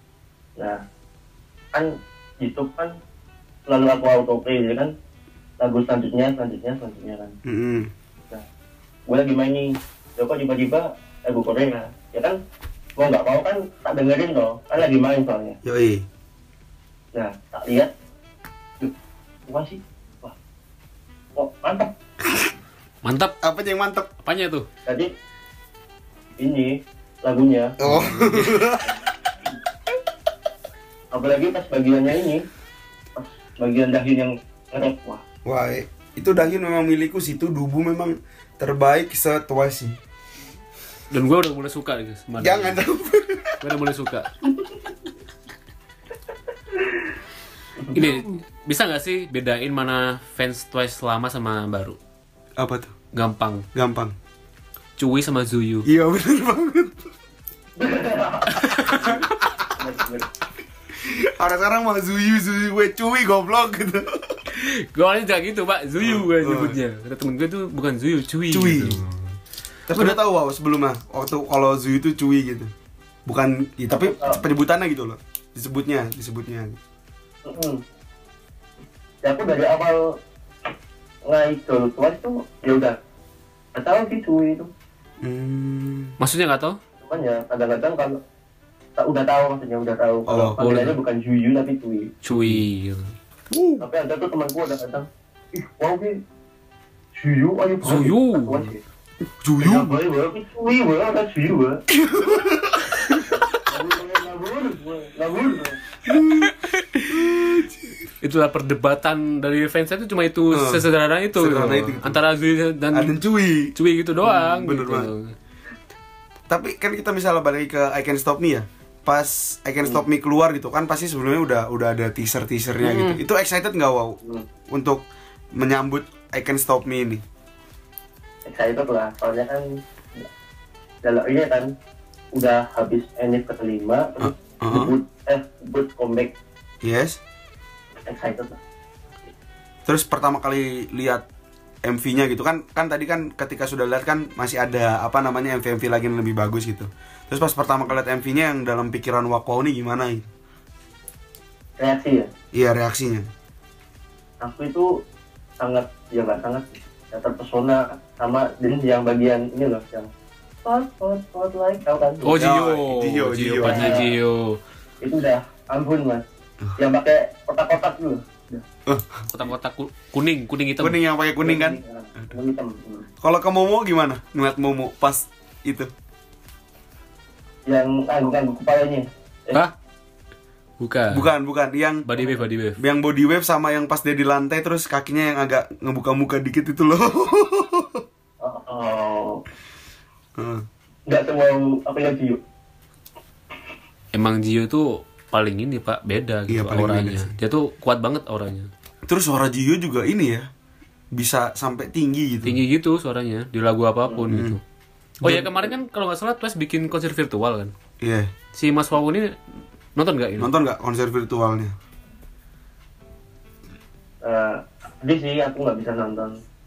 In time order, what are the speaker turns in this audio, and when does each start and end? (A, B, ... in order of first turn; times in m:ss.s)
0:01.7-0:02.9 A
0:03.7-0:04.9 A
0:05.6-0:07.4 A
0:07.4-0:07.9 B
0:09.1-0:12.4 A
0:13.0-0:15.6 A
0:15.6-0:16.0 B
0:17.1-0:17.9 A
0:19.5-0:20.3 A
0:21.4-0:21.9 A
0:23.0-0:23.3 C
0:23.4-0:24.1 B
0:24.2-0:24.7 C
0:26.4-0:27.8 A
0:27.8-0:28.9 B
0:27.8-0:28.6 C
0:31.1-0:32.4 A
0:33.1-0:35.2 A
0:35.4-0:40.0 B
0:41.1-0:42.8 C
0:42.4-0:43.6 B
0:43.6-0:44.3 C
0:47.9-0:52.0 C
0:52.6-0:52.9 B
0:53.1-0:53.6 C
0:53.7-0:54.1 B
0:55.0-0:55.9 C
0:55.8-0:57.0 B
0:57.8-1:00.3 A
0:58.6-0:59.3 C
1:01.0-1:04.4 B
1:04.5-1:09.2 C
1:06.0-1:06.8 B
1:08.5-1:09.0 B
1:09.9-1:12.7 B
1:09.9-1:10.2 C
1:13.2-1:16.8 B
1:13.9-1:14.4 A
1:17.4-1:17.8 A
1:19.2-1:20.0 A
1:21.3-1:23.0 A
1:23.7-1:24.7 A
1:25.2-1:26.2 B
1:26.2-1:26.8 C
1:27.0-1:28.2 A
1:29.0-1:32.2 A
1:30.2-1:30.6 B
1:30.6-1:30.9 C
1:32.2-1:33.1 C
1:32.3-1:32.6 B
1:33.5-1:33.8 B
1:33.8-1:36.2 A
1:37.1-1:38.8 A
1:37.8-1:38.7 C
1:39.4-1:40.0 B
1:39.6-1:41.8 A
1:41.9-1:42.9 B
1:43.6-1:45.8 A
1:46.0-1:46.5 B
1:46.1-1:47.1 C
1:47.1-1:48.1 B
1:48.2-1:53.2 C
1:50.5-1:50.8 B
1:51.4-1:52.2 B
1:52.9-1:53.7 B
1:53.7-1:55.3 C
1:54.2-1:55.1 B
1:56.5-2:04.2 B
2:02.8-2:03.2 C
2:04.7-2:05.0 B
2:05.6-2:07.2 B
2:08.4-2:10.2 A
2:11.0-2:11.7 A
2:12.3-2:16.3 A
2:14.2-2:14.9 B
2:16.8-2:17.2 B
2:18.0-2:18.6 A
2:19.8-2:21.2 B
2:21.8-2:30.3 B
2:31.8-2:32.3 A
2:32.5-2:33.3 B
2:34.4-2:34.9 A
2:35.6-2:40.1 A
2:40.6-2:42.4 A
2:42.2-2:44.6 C
2:42.3-2:44.0 B
2:43.6-2:44.1 A
2:45.0-2:46.2 A
2:46.8-2:48.6 A
2:48.8-2:49.2 B
2:49.3-2:51.0 C
2:50.8-2:51.8 B
2:51.4-2:53.1 A
2:53.2-2:55.9 B
2:57.7-2:59.6 A
3:00.8-3:01.2 C
3:01.1-3:02.1 B
3:02.0-3:02.8 C
3:02.8-3:08.0 B
3:08.4-3:09.4 A
3:10.4-3:10.6 B
3:11.1-3:12.4 A
3:14.1-3:18.7 C
3:16.5-3:17.3 B
3:19.1-3:20.5 B
3:21.1-3:22.6 B
3:22.4-3:24.6 C
3:24.3-3:24.6 B
3:25.2-3:25.5 B
3:25.2-3:27.7 C
3:28.0-3:28.3 B
3:28.5-3:29.4 C
3:30.0-3:30.5 C
3:30.4-3:31.7 B
3:34.2-3:36.4 A